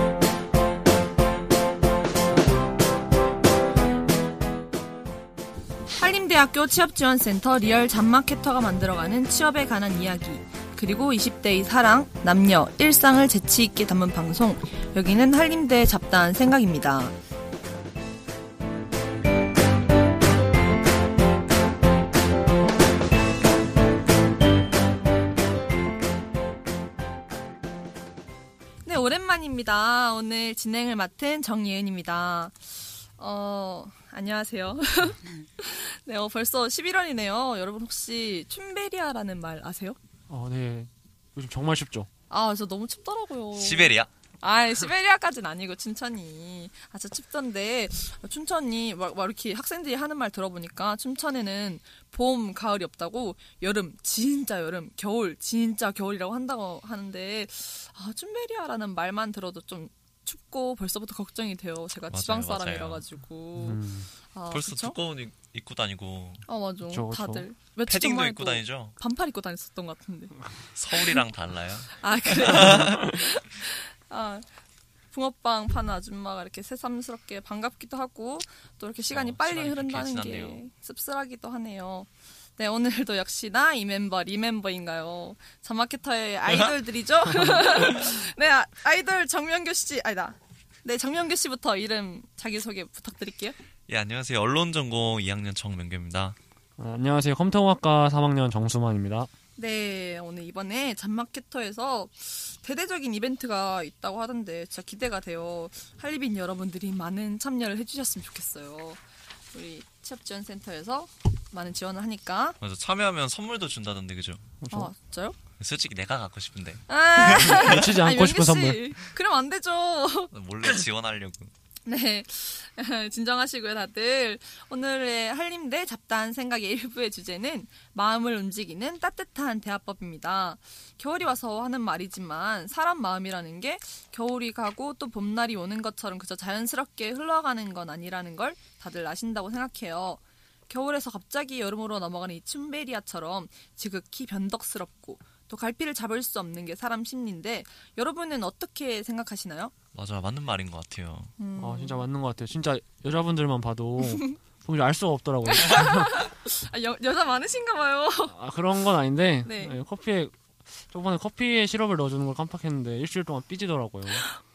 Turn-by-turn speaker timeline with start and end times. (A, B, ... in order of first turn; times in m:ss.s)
0:06.0-0:17.2 A
0:28.8-0:40.0 A
0:40.3-0:42.1 B
0:42.3-1:05.0 A
0:43.6-0:44.1 C
1:02.1-1:03.0 C
1:03.6-1:04.1 B
1:04.5-1:06.5 C
1:06.5-1:11.2 A
1:06.9-1:07.5 B
1:07.9-1:09.0 C
1:10.8-1:13.0 C
1:11.9-1:14.5 A
1:15.1-1:33.6 A
1:19.1-1:20.6 C
1:26.5-1:26.7 C
1:33.9-1:36.4 C
1:36.8-1:39.3 B
1:39.6-1:52.6 A
1:52.6-1:54.5 C
1:54.6-1:54.9 B
1:54.7-1:55.4 A
1:55.6-1:56.9 C
1:56.9-2:00.7 A
1:57.2-1:58.9 B
2:00.3-2:01.5 C
2:01.9-2:29.7 A
2:29.9-2:31.4 C
2:31.4-2:32.1 A
2:31.6-2:36.2 B
2:34.0-2:34.3 A
2:35.5-2:38.4 A
2:38.3-2:44.3 B
2:39.4-2:39.8 A